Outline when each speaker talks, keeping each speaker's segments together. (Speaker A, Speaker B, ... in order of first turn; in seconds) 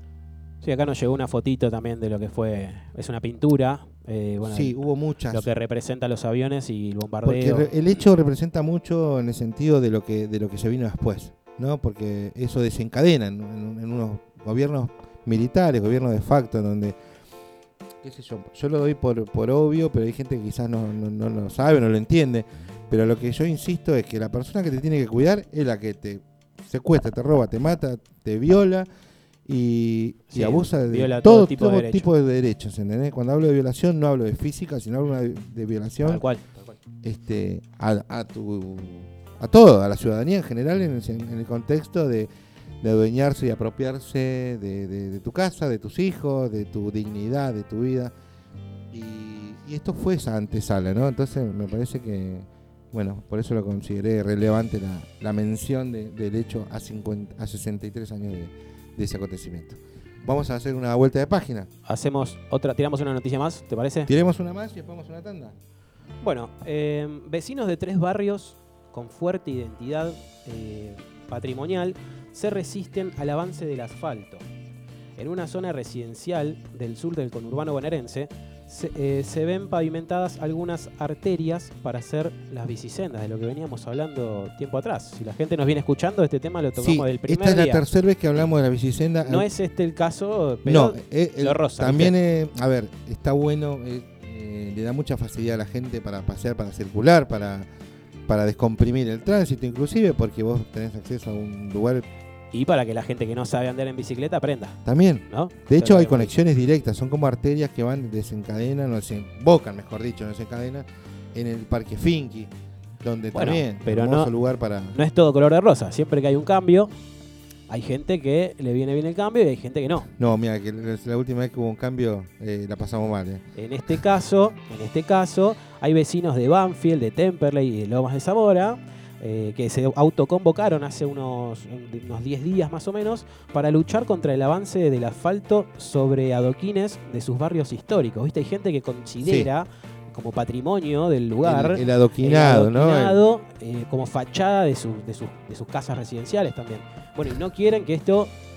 Speaker A: 0.6-4.8, 5.3-7.7, 30.3-32.1, 36.0-36.8, 61.9-64.1, 66.2-74.4, 75.2-87.8, 89.2-92.1, 102.5-106.3, 113.3-114.3, 114.9-116.9, 117.7-120.1, 123.5-148.4
Speaker B: 4.4-5.5, 7.2-17.0, 18.0-28.9, 29.4-36.2, 37.0-42.3, 42.8-48.1, 48.9-61.7, 64.1-65.5, 86.8-89.5, 90.6-97.7, 98.3-102.1, 104.8-115.0, 120.2-123.5, 139.2-139.5, 141.4-143.2